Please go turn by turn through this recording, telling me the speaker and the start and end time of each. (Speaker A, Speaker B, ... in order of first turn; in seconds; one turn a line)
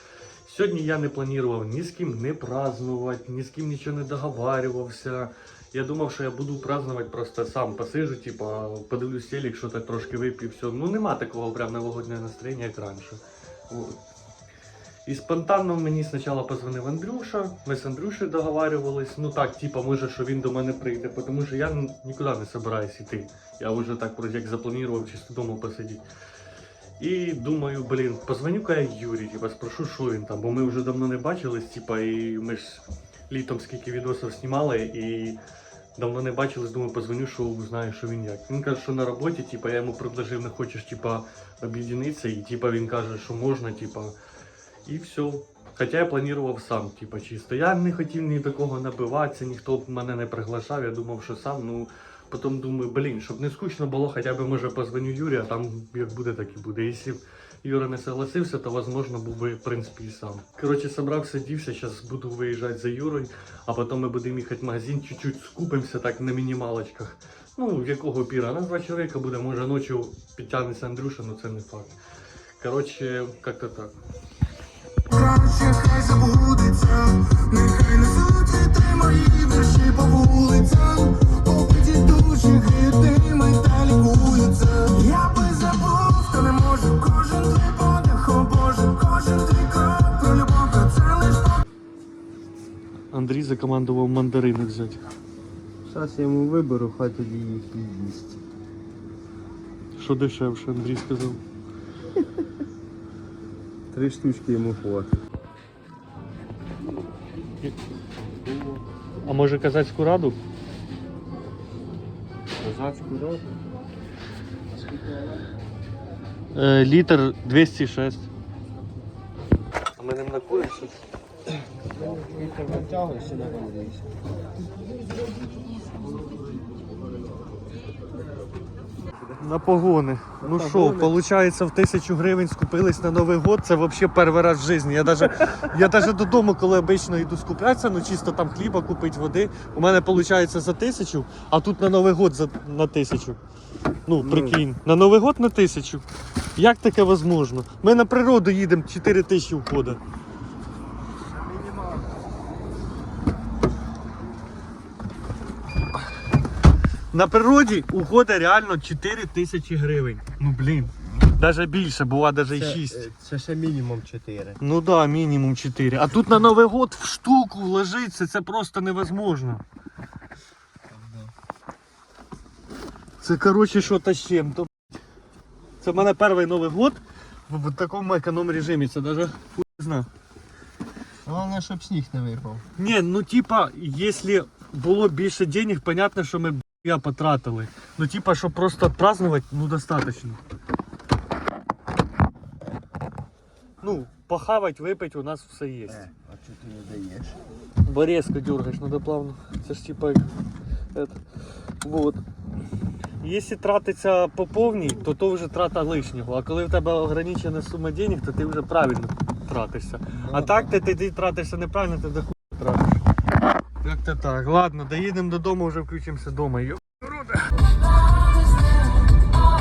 Speaker A: 0.5-13.9
Speaker A: 15.1-26.0
Speaker A: 27.0-35.4
Speaker A: 36.0-44.1
Speaker A: 44.9-72.0
Speaker A: 72.6-73.9
Speaker B: 75.1-91.6
Speaker A: 93.1-95.0
Speaker C: 95.8-98.4
Speaker A: 100.0-101.4
Speaker C: 103.9-105.1
Speaker C: 108.5-108.8
Speaker A: 109.2-110.4
Speaker C: 112.6-113.5
Speaker A: 116.5-118.3
Speaker A: 120.0-121.0
Speaker C: 122.1-124.0
Speaker A: 129.4-143.4
Speaker C: 130.7-131.1
Speaker A: 144.1-150.0
Speaker A: 157.1-163.1
Speaker C: 162.5-164.6
Speaker A: 164.6-169.6
Speaker C: 170.9-171.3
Speaker A: 173.2-174.7
Speaker A: 175.8-180.1
Speaker C: 181.3-182.6
Speaker A: 182.8-190.4
Speaker A: 193.8-196.1
Speaker C: 196.1-197.3
Speaker A: 197.8-200.2
Speaker A: 200.9-201.2
Speaker A: 201.8-202.2
Speaker A: 203.2-213.0
Speaker A: 213.8-217.5